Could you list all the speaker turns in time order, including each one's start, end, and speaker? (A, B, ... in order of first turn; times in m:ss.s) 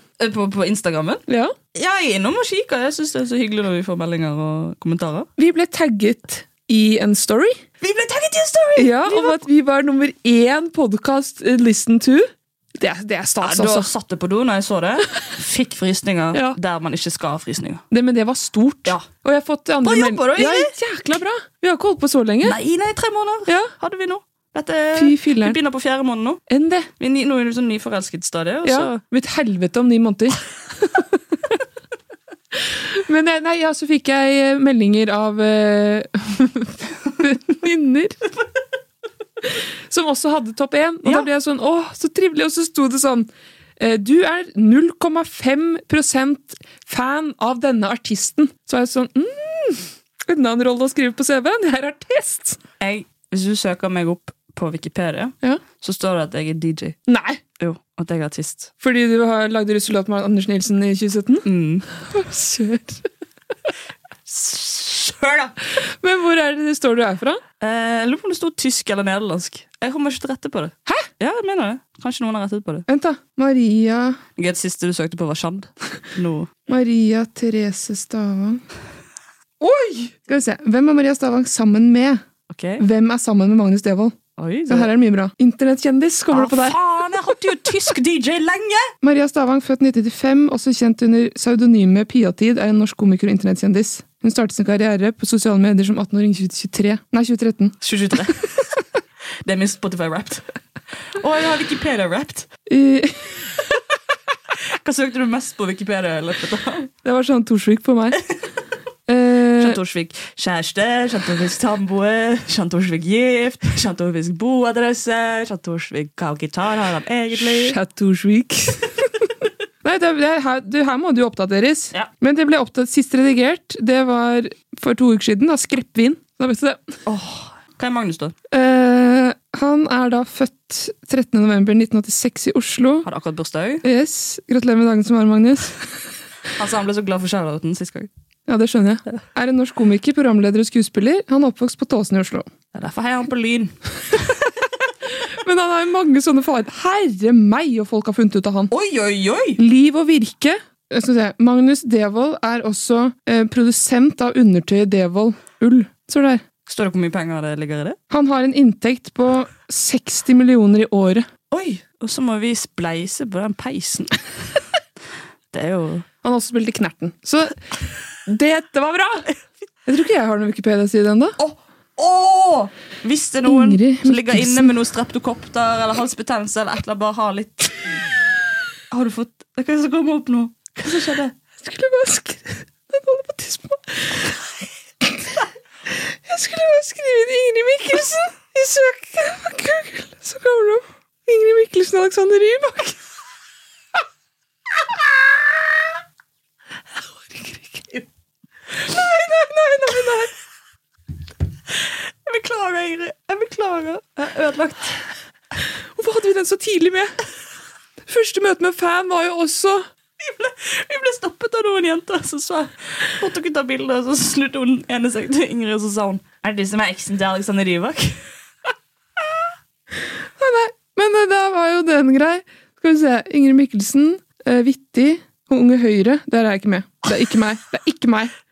0:00.2-0:05.3 A
0:01.3-0:01.5 B
0:05.4-0:07.6 B
0:07.8-0:09.4 A
0:08.8-0:13.9 B
0:13.4-0:17.8 A
0:16.3-0:16.6 B
0:17.9-0:22.6 B
0:19.8-0:20.7 A
0:22.4-0:26.4 A
0:23.5-0:23.7 B
0:25.0-0:25.6 B
0:26.5-0:26.9 B
0:27.0-0:29.0 A
0:28.6-0:31.5 B
0:32.7-0:38.2 B
0:39.4-0:43.3 B
0:43.8-0:52.6 B
0:52.8-0:57.0 A
0:57.1-0:57.4 B
0:57.6-0:58.7 A
0:58.8-1:01.4 B
1:01.4-1:01.9 A
1:02.1-1:03.0 B
1:04.3-1:05.5 A
1:06.0-1:07.4 B
1:07.6-1:12.8 A
1:12.9-1:14.2 B
1:14.4-1:16.5 A
1:16.7-1:18.6 B
1:19.6-1:22.2 B
1:22.5-1:22.8 A
1:22.8-1:24.2 B
1:24.4-1:24.9 A
1:24.7-1:26.8 B
1:26.3-1:28.9 A
1:29.0-1:37.8 B
1:37.8-1:38.7 A
1:39.4-1:40.5 A
1:41.2-1:42.5 A
1:42.7-1:43.5 B
1:44.7-1:46.9 A
1:47.0-1:48.2 B
1:49.1-1:49.8 B
1:49.6-1:57.8 A
1:57.3-2:07.0 B
2:07.1-2:08.4 A
2:08.5-2:13.1 B
2:13.0-2:13.8 A
2:13.8-2:15.9 B
2:16.6-2:18.1 A
2:18.5-2:22.5 B
2:22.7-2:24.3 A
2:25.4-2:28.7 B
2:28.7-2:29.6 A
2:29.6-2:36.4 B
2:36.7-2:38.0 A
2:38.1-2:41.3 B
2:41.5-2:44.2 A
2:45.5-2:46.1 A
2:46.2-2:49.3 B
2:49.9-2:51.4 B
2:51.4-2:57.8 A
2:53.5-2:54.7 B
2:58.9-3:01.3 A
3:00.9-3:04.4 B
3:05.0-3:05.4 B
3:05.9-3:13.0 B
3:17.3-3:18.0 B
3:18.9-3:20.3 B
3:21.8-3:25.0 A
3:26.0-3:27.1 B
3:28.1-3:29.9 B
3:30.2-3:38.2 A
3:40.4-3:48.3 B